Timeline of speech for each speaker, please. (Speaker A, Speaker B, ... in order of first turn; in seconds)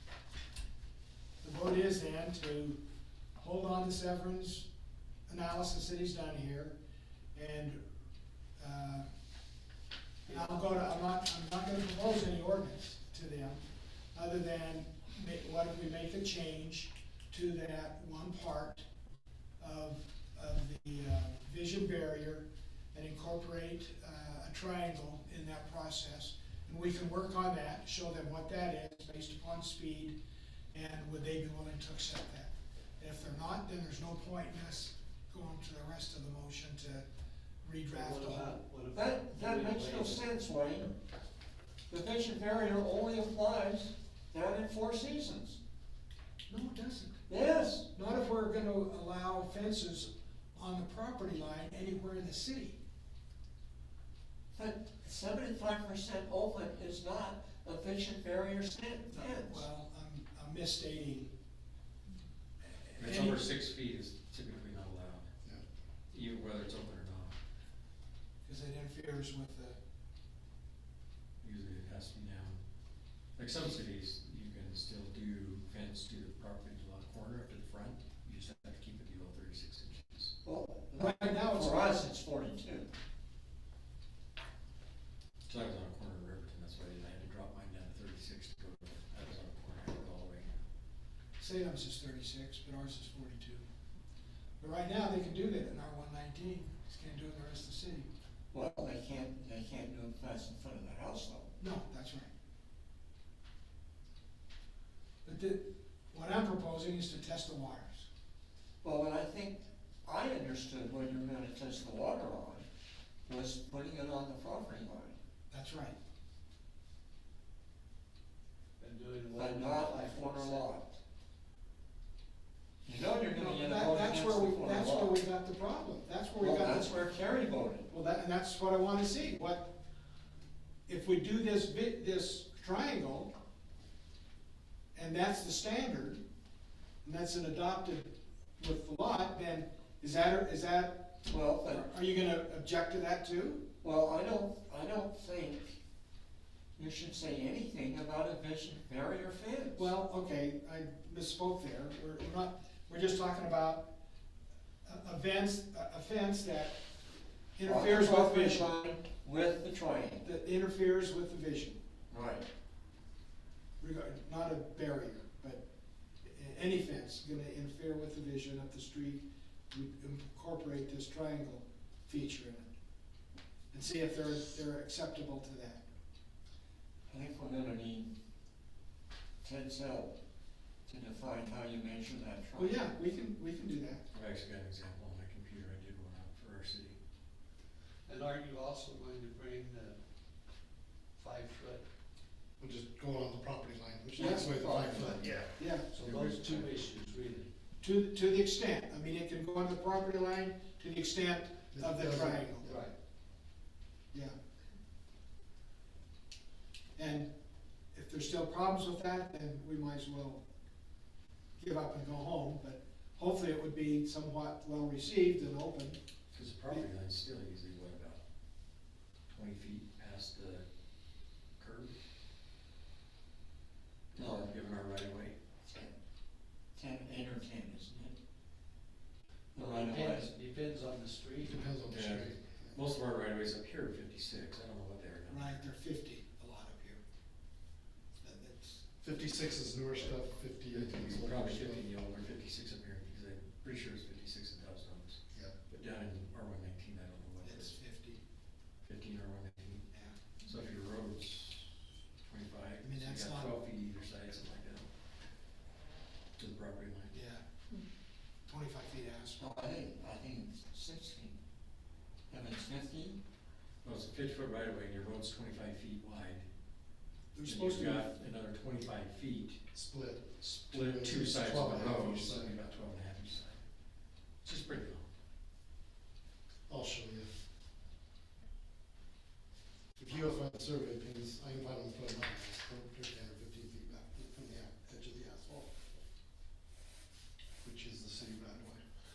Speaker A: 1.4-2.8, 3.4-4.7, 5.3-6.8, 7.3-7.8, 8.6-9.1, 10.2-18.9, 19.6-30.2, 30.7-37.0, 37.6-38.6, 46.5-47.2, 47.8-52.8, 59.1-61.3, 62.6-63.4, 68.4-69.8, 81.0-82.1, 91.4-93.7, 94.6-98.1, 101.6-102.3, 105.2-108.1, 115.5-116.0, 123.3-127.0, 127.9-129.7, 130.9-133.3, 134.9-136.2, 137.0-141.1, 141.7-143.7, 149.8-153.9, 154.8-156.8, 157.6-158.7, 160.2-161.8, 163.8-165.6, 166.2-172.7, 173.7-175.8, 182.6-184.0, 195.6-195.9, 197.8-202.8, 207.0-207.3, 207.9-210.4, 211.6-216.0, 235.3-237.0, 238.2-238.9, 247.4-248.2, 249.9-250.2, 252.8-253.6, 257.1-257.4, 258.5-259.8, 267.3-268.1
Speaker B: 10.3-10.9, 37.9-40.2, 118.8-120.7, 188.1-190.0, 191.2-191.8, 195.9-197.5, 202.6-202.9, 229.6-231.6
Speaker C: 38.9-40.9, 41.9-45.6, 47.3-47.9, 54.5-59.7, 80.4-82.9, 98.5-101.5, 108.8-112.7, 113.3-115.2, 119.4-121.0, 122.8-125.2, 126.4-127.9, 141.3-141.9, 143.8-145.8, 146.8-149.9, 157.6-160.2, 162.1-162.5, 177.1-178.1, 179.4-180.1, 180.9-182.8, 194.2-195.3, 224.2-224.5, 225.7-225.9, 226.8-228.2, 229.6-230.3, 259.4-261.4, 262.3-263.2
Speaker D: 63.0-65.3, 66.1-67.4, 71.4-72.6, 73.4-80.3, 85.5-90.6, 184.1-187.0, 195.2-195.5, 196.0-196.7, 216.3-218.2, 219.3-220.7, 221.6-222.0, 224.1-225.4, 231.9-235.6, 240.7-247.8, 248.8-249.9, 250.4-254.9, 256.4-257.1, 263.8-266.5, 267.4-269.6, 270.4-273.6, 274.4-275.1
Speaker E: 192.6-195.5, 201.7-202.8, 231.4-232.8, 239.0-241.9, 269.7-272.6, 276.7-277.4, 280.0-285.9, 287.6-288.8